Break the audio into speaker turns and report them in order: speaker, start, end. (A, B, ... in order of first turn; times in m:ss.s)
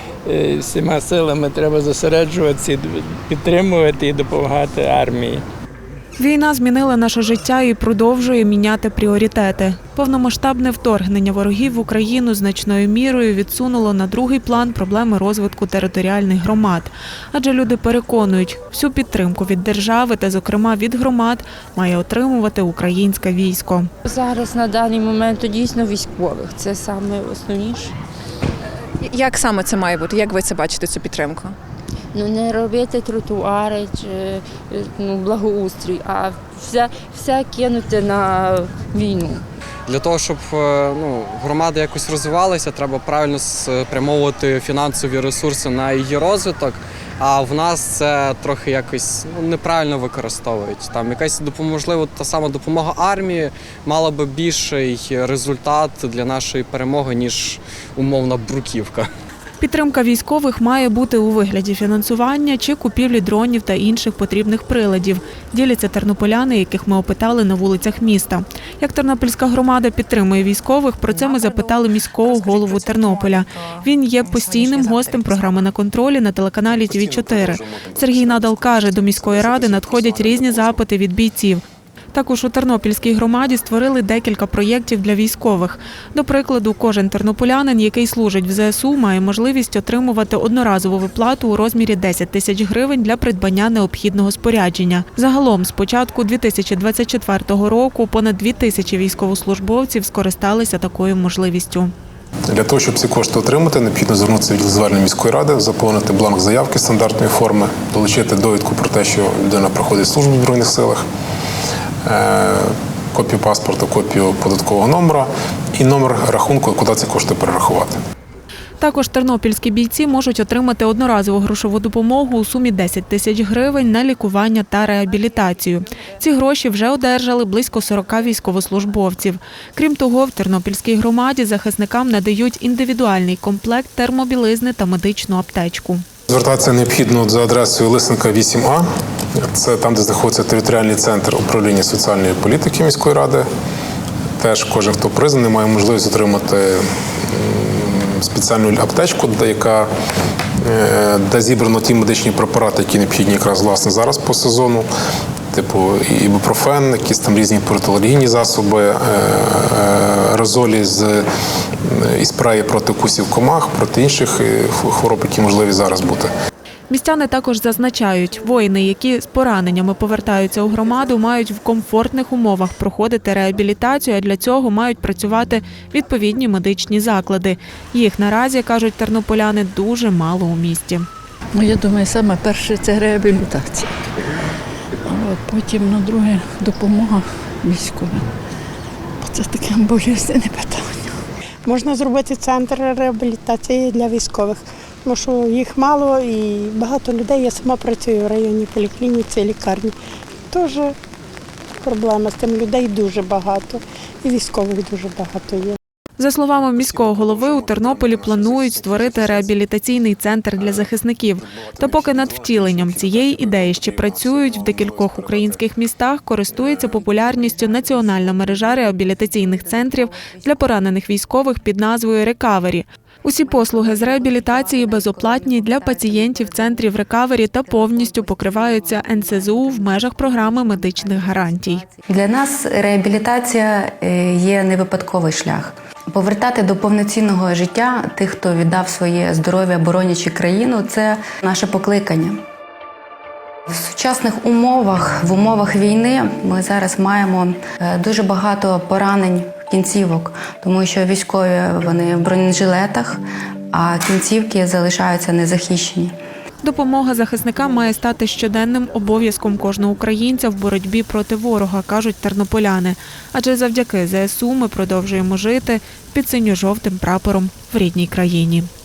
0:00.3-0:05.4 A
0:06.2-0:23.9 B
0:24.0-0:27.9 C
0:29.1-0:31.6 D
0:32.1-0:39.4 C
0:39.9-0:59.1 E
0:59.6-1:21.6 B
1:16.8-1:20.8 F
1:22.1-1:41.9 B
1:42.5-1:51.0 F
1:52.0-1:58.0 F
1:58.8-2:16.0 B
2:16.3-2:18.8 F
2:19.4-2:23.5 F
2:24.4-2:29.9 F
2:30.6-2:34.9 F
2:35.5-2:41.2 F
2:41.8-2:46.3 F
2:46.9-3:01.0 B
3:01.5-3:03.9 G
3:05.0-3:08.3 G
3:09.2-3:11.2 G
3:11.6-3:19.9 H
3:20.5-3:20.9 H
3:21.8-3:25.8 H
3:26.2-3:51.8 B
3:27.1-3:28.9 F
3:43.9-3:46.3 I
3:50.8-4:02.4 I
4:03.7-4:16.1 I
4:16.6-4:28.7 B